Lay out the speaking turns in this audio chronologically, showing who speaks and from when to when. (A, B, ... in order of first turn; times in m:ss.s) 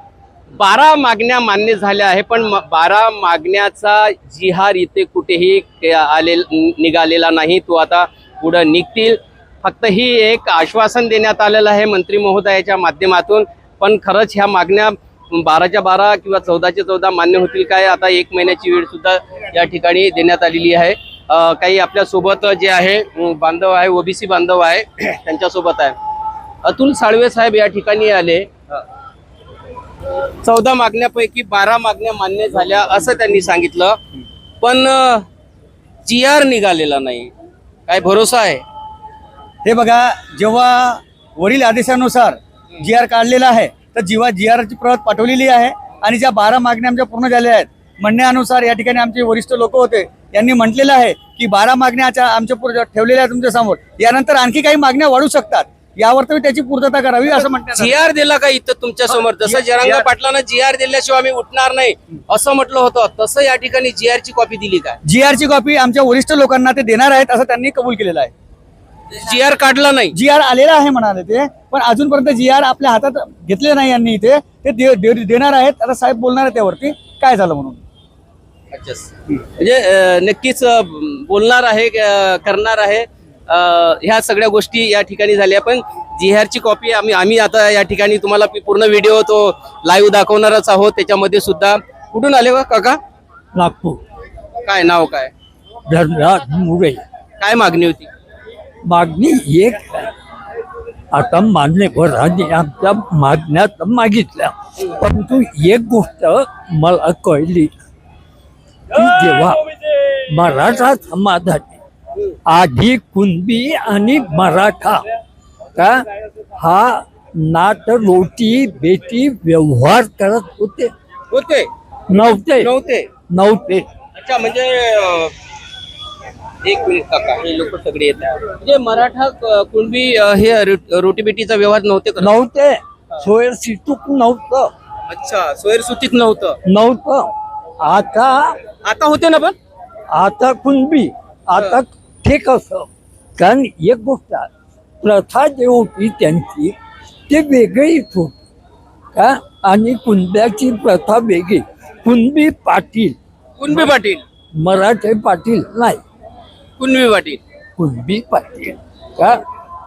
0:00.6-0:26.0 A
0:26.6-0:28.8 A
0:30.4-0:34.0 A
0:34.6-0:35.2 A
0:36.0-0:37.3 A
0:37.9-0:38.6 A
0:39.6-0:57.9 B
0:57.7-1:05.0 A
0:59.4-1:00.0 B
1:05.0-1:08.3 B
1:09.1-1:10.1 A
1:10.1-1:17.8 B
1:18.7-1:33.0 A
1:33.5-1:34.0 C
1:34.6-1:35.3 A
1:35.9-1:37.0 C
1:37.4-1:38.1 A
1:38.8-1:40.1 C
1:41.1-1:47.8 C
1:48.9-1:49.6 C
1:50.3-1:51.8 C
1:52.4-1:55.0 C
1:55.8-1:56.0 C
1:56.6-2:00.9 C
2:01.3-2:01.7 A
2:02.1-2:02.7 C
2:02.6-2:03.1 A
2:03.3-2:03.8 C
2:04.2-2:05.3 A
2:06.6-2:12.3 A
2:12.2-2:14.7 C
2:15.1-2:16.6 A
2:16.6-2:17.3 C
2:17.8-2:18.6 C
2:18.8-2:19.6 A
2:20.1-2:24.5 C
2:25.0-2:26.7 C
2:27.3-2:28.4 C
2:29.1-2:33.2 C
2:33.6-2:34.2 A
2:34.6-2:36.0 C
2:36.8-2:37.4 A
2:37.8-2:39.4 C